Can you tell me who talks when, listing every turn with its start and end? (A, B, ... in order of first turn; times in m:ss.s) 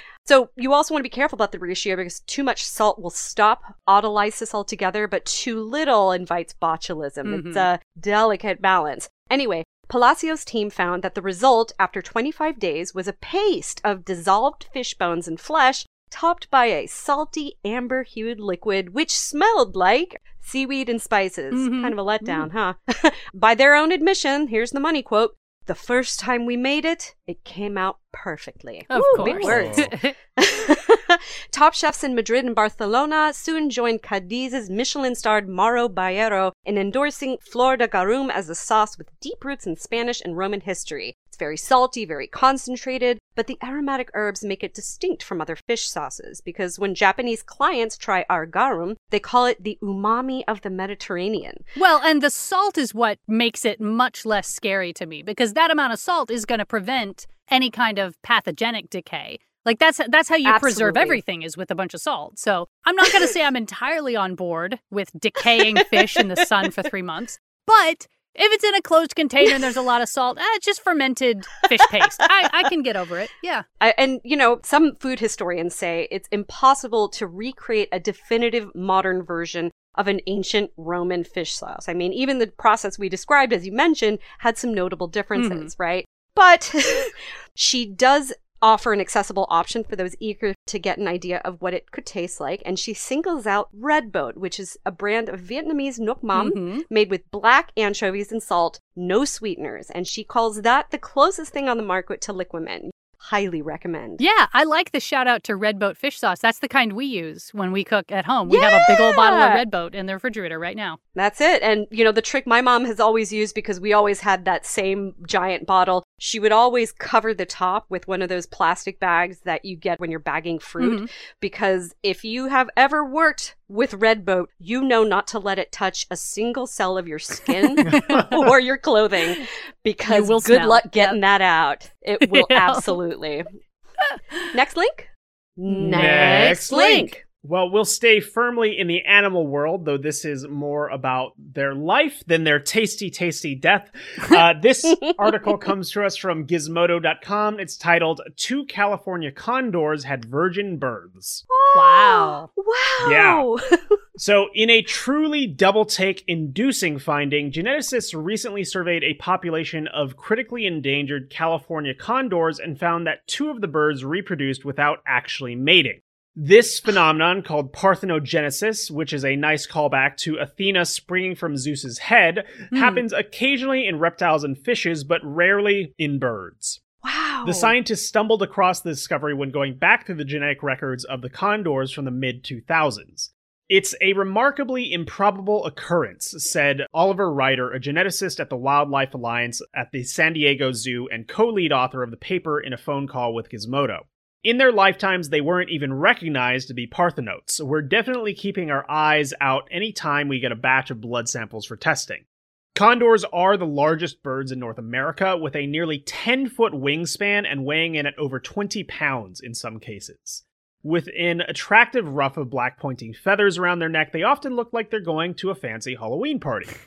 0:00.2-0:51.7 A
0:07.2-0:07.7 B
0:21.5-0:22.5 B
0:28.9-0:30.1 B
0:29.2-0:29.9 C
0:51.8-1:13.6 B
1:00.4-1:01.2 A
1:05.7-1:06.2 A
1:13.8-1:44.2 A
1:25.4-1:25.7 B
1:36.3-1:36.8 B
1:44.2-1:51.0 B
1:48.5-1:49.6 A
1:51.1-2:13.4 A
2:00.8-2:01.1 B
2:07.8-2:08.4 B
2:10.1-2:11.2 B
2:12.2-2:13.0 B
2:14.0-2:14.5 B
2:14.5-2:17.2 A
2:15.7-2:17.1 B
2:15.8-2:31.4 C
2:24.9-2:25.6 A
2:31.5-2:34.0 A
2:31.7-2:32.5 B
2:33.0-2:33.5 C
2:34.2-2:56.8 C
2:52.7-2:53.0 B
2:57.0-2:57.7 A
2:57.4-3:36.8 C